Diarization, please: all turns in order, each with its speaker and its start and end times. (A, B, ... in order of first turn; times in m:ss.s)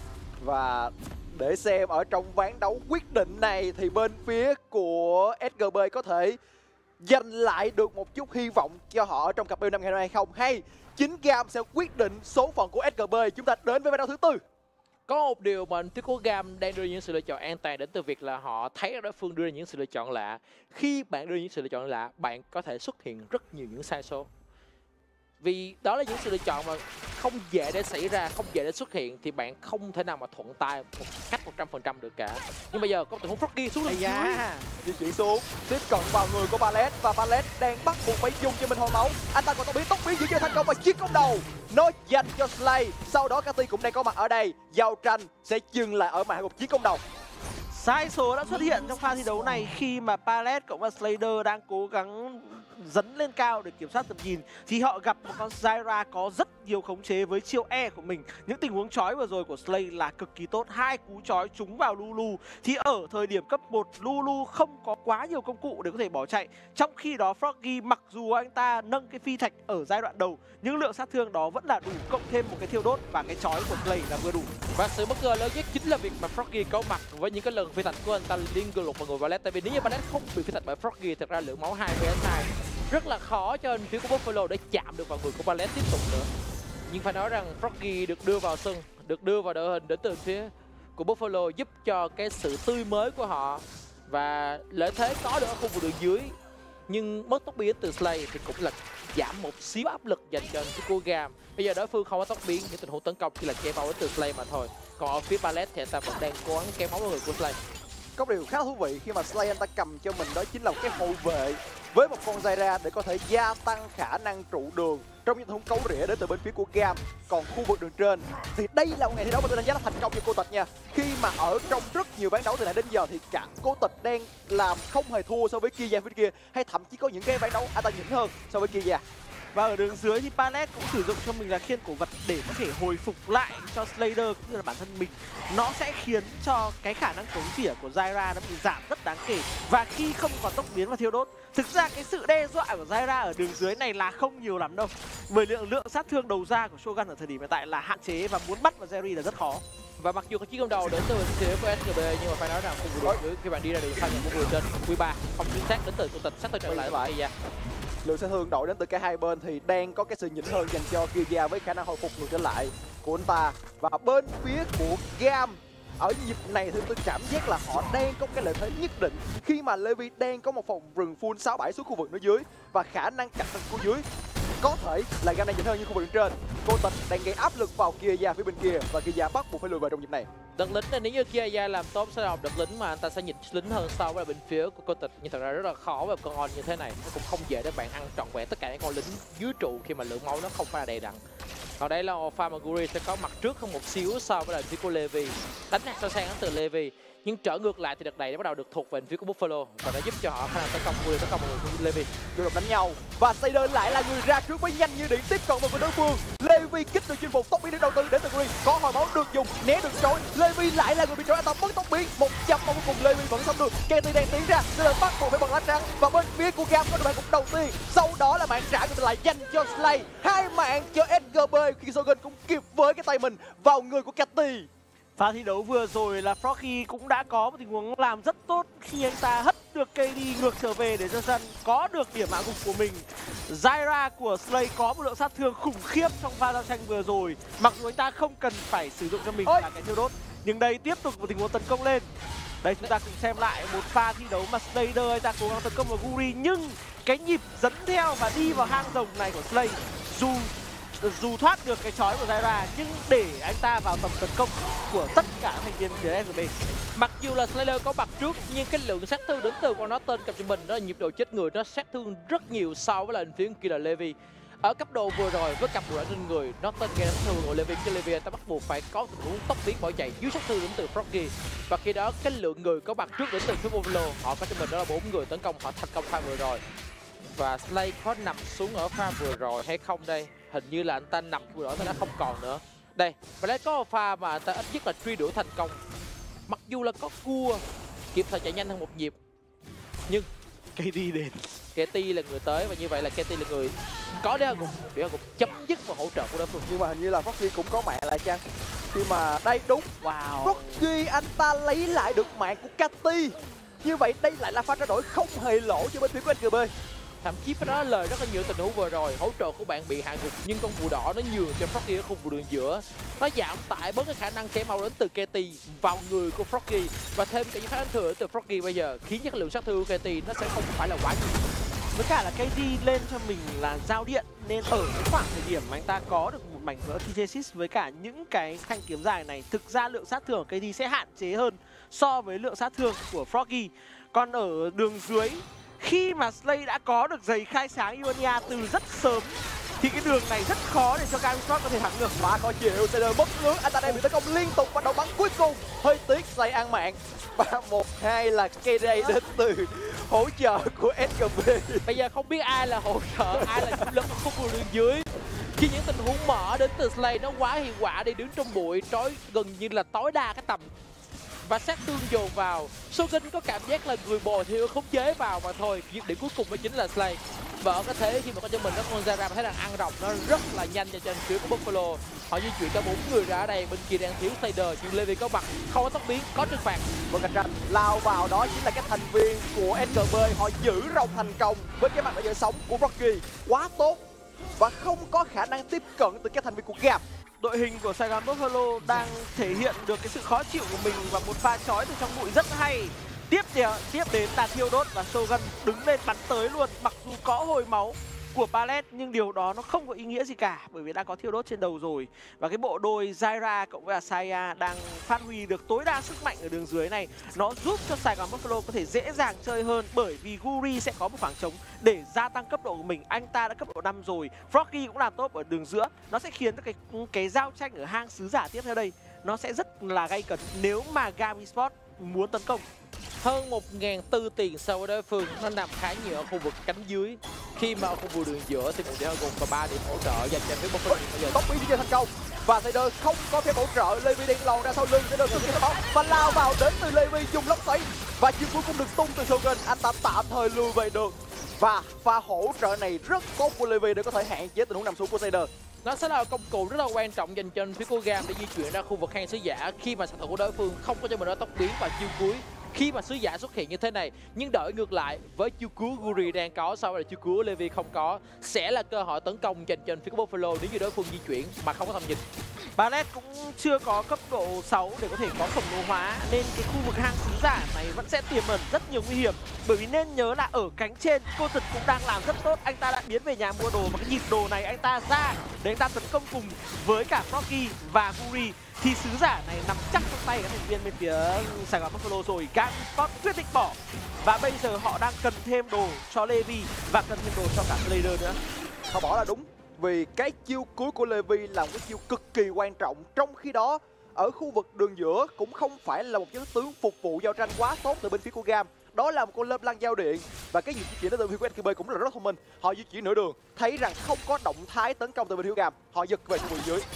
0:00.4-0:06.4 A
0:07.0-0:14.4 A
0:15.1-0:24.3 B
0:25.4-0:34.4 B
0:33.9-0:34.7 C
0:34.8-0:47.0 A
0:47.7-1:14.5 C
1:14.8-1:26.3 B
1:26.9-1:36.4 B
1:36.9-1:47.6 B
1:48.2-2:09.0 A
2:09.5-2:29.6 C
2:30.0-2:37.3 B
2:36.7-2:37.1 A
2:38.0-2:54.0 A
2:54.6-3:00.3 A
3:00.6-3:11.2 B
3:11.8-3:22.1 B
3:22.3-3:44.7 A
3:45.2-4:02.1 C
4:02.6-4:16.5 C
4:17.0-4:36.6 B
4:37.3-4:45.8 B
4:46.5-4:49.2 B
4:50.8-4:51.5 C
4:51.8-4:56.7 B
4:56.7-4:59.9 A
5:00.0-5:00.8 C
5:00.4-5:06.7 A
5:07.2-5:21.4 B
5:22.0-5:42.2 C
5:42.2-5:51.9 A
5:51.9-5:55.1 B
5:53.3-5:53.9 A
5:55.6-6:00.7 B
6:01.4-6:16.9 B
6:17.1-6:24.0 A
6:24.6-6:27.0 A
6:27.4-7:02.7 C
7:03.2-7:11.4 B
7:10.9-7:25.5 A
7:25.8-7:42.2 B
7:42.8-8:08.4 C
8:08.9-8:26.9 A